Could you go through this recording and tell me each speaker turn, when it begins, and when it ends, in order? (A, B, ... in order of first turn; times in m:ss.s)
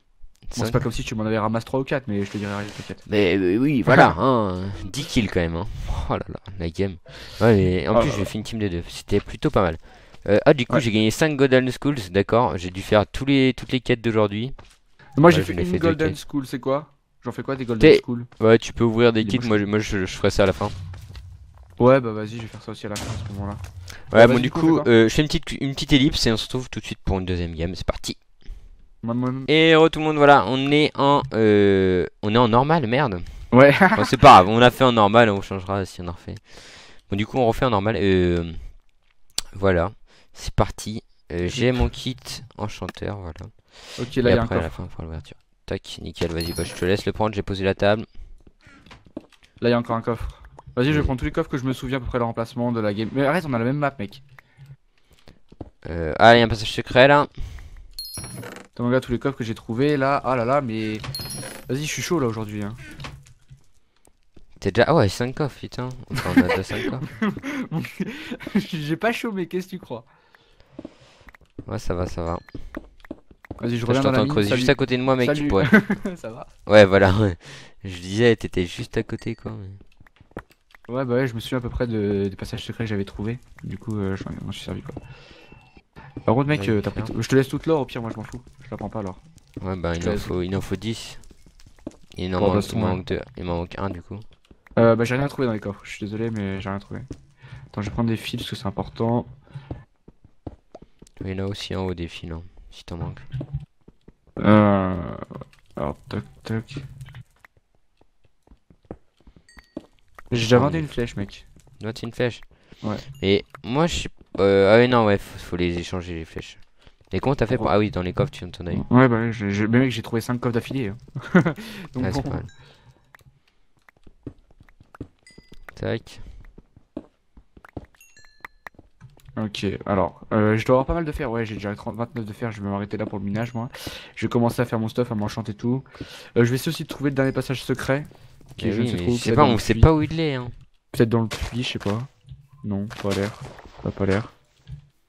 0:00.4-0:00.8 A
0:00.6-0:03.1 B
0:03.1-0:14.6 A
0:07.9-0:08.3 B
0:15.2-0:18.3 B
0:15.3-0:16.2 A
0:17.8-0:20.8 A
0:19.2-0:19.6 B
0:21.8-0:24.9 B
0:24.1-0:28.2 A
0:29.0-0:29.5 B
0:29.5-0:38.8 A
0:33.5-0:34.1 B
0:39.5-0:48.1 A
0:41.4-0:41.8 B
0:44.0-0:44.8 B
0:49.6-0:54.2 B
0:55.8-0:57.5 A
0:58.8-1:01.0 B
1:01.7-1:02.8 B
1:04.6-1:07.1 A
1:07.2-1:10.1 B
1:11.6-1:12.5 A
1:13.6-1:16.5 B
1:13.9-1:15.7 A
1:16.7-1:19.8 A
1:20.9-1:25.0 B
1:26.3-1:29.2 B
1:26.5-1:27.1 A
1:29.6-1:31.2 A
1:30.0-1:30.3 B
1:32.2-1:34.2 A
1:32.4-1:33.0 B
1:34.8-1:37.1 B
1:37.7-1:39.3 B
1:41.2-1:43.3 A
1:44.4-1:46.8 B
1:50.3-1:51.4 B
1:50.4-1:51.0 A
1:51.8-1:58.8 A
1:58.7-2:02.5 B
2:02.0-2:02.5 A
2:05.7-2:06.2 A
2:09.4-2:19.9 B
2:18.6-2:20.5 A
2:20.9-2:22.1 B
2:22.6-2:24.3 B